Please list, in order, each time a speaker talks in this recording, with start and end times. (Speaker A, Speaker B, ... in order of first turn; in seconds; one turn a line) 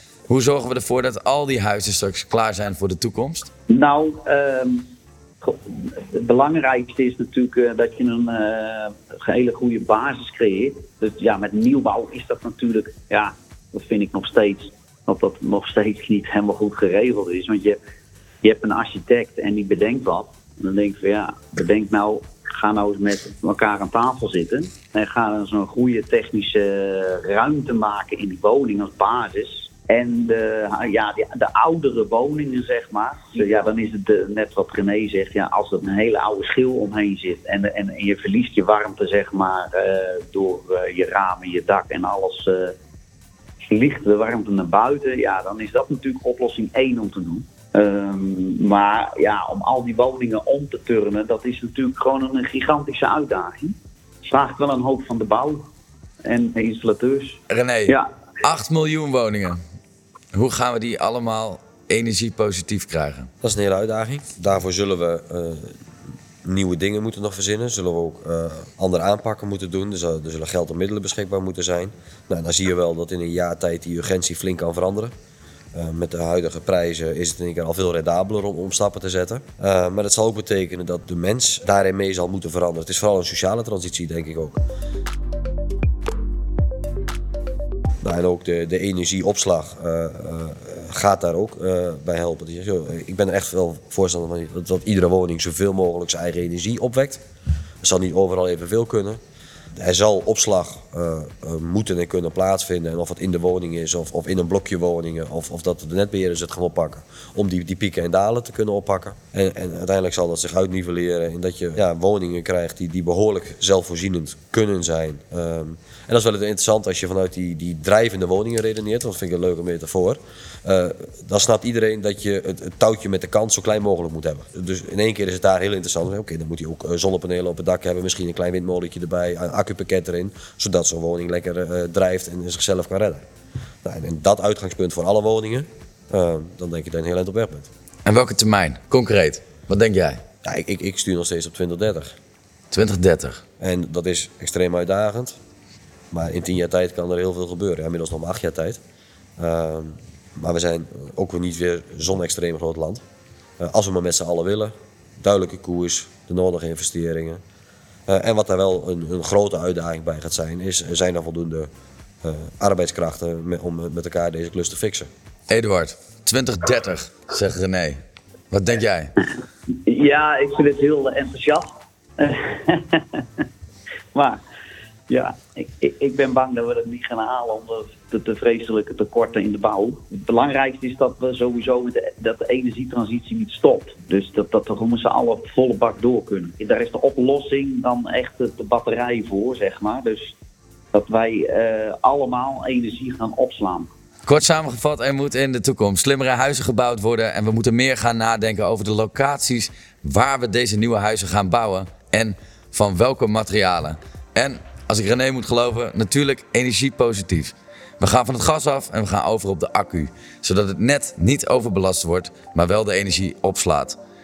Speaker A: 0.3-3.5
Speaker B: 3.7-4.8
Speaker B: 5.4-17.8
Speaker B: 18.4-42.7
Speaker B: 43.6-55.7
Speaker B: 56.2-58.1
Speaker A: 57.5-59.6
Speaker A: 60.3-63.3
Speaker C: 63.4-65.8
Speaker C: 66.4-75.1
Speaker C: 75.7-84.6
Speaker C: 88.0-97.2
Speaker C: 97.8-99.2
Speaker C: 99.8-133.2
Speaker C: 133.8-137.7
Speaker A: 138.1-140.2
Speaker C: 140.4-142.2
Speaker A: 142.7-143.4
Speaker C: 143.6-145.4
Speaker C: 146.1-148.8
Speaker C: 149.4-153.0
Speaker C: 153.6-157.4
Speaker C: 158.1-161.7
Speaker C: 162.2-165.1
Speaker A: 165.5-169.1
Speaker B: 169.8-173.4
Speaker B: 175.1-190.3
Speaker B: 190.9-193.9
Speaker A: 194.2-214.0